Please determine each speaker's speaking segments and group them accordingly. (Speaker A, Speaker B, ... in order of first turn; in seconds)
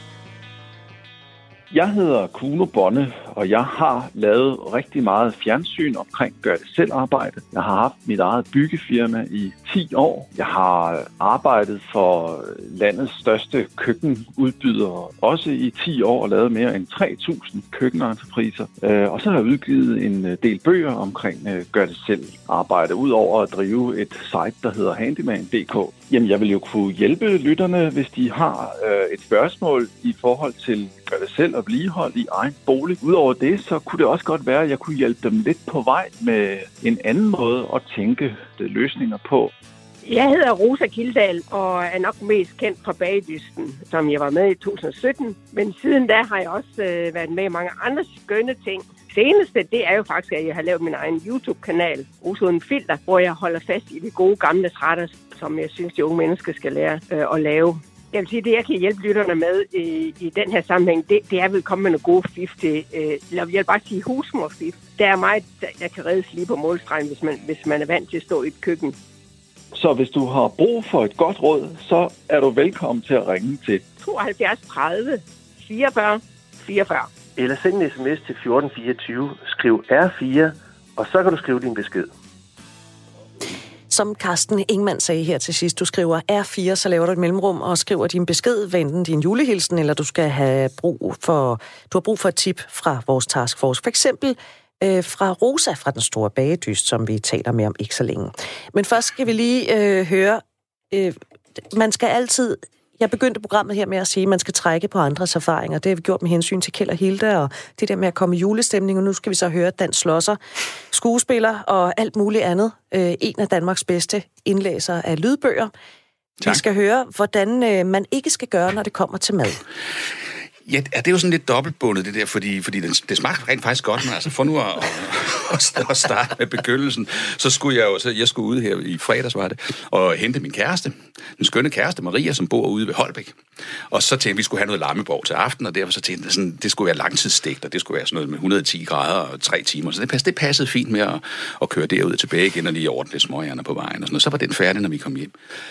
Speaker A: 1.7-39.5, 69.7-73.8
Speaker B: 40.0-69.0, 74.0-77.1
Speaker C: 77.4-82.1
Speaker D: 83.9-101.2, 101.7-110.4, 110.9-115.7, 116.4-119.6
Speaker E: 120.7-145.3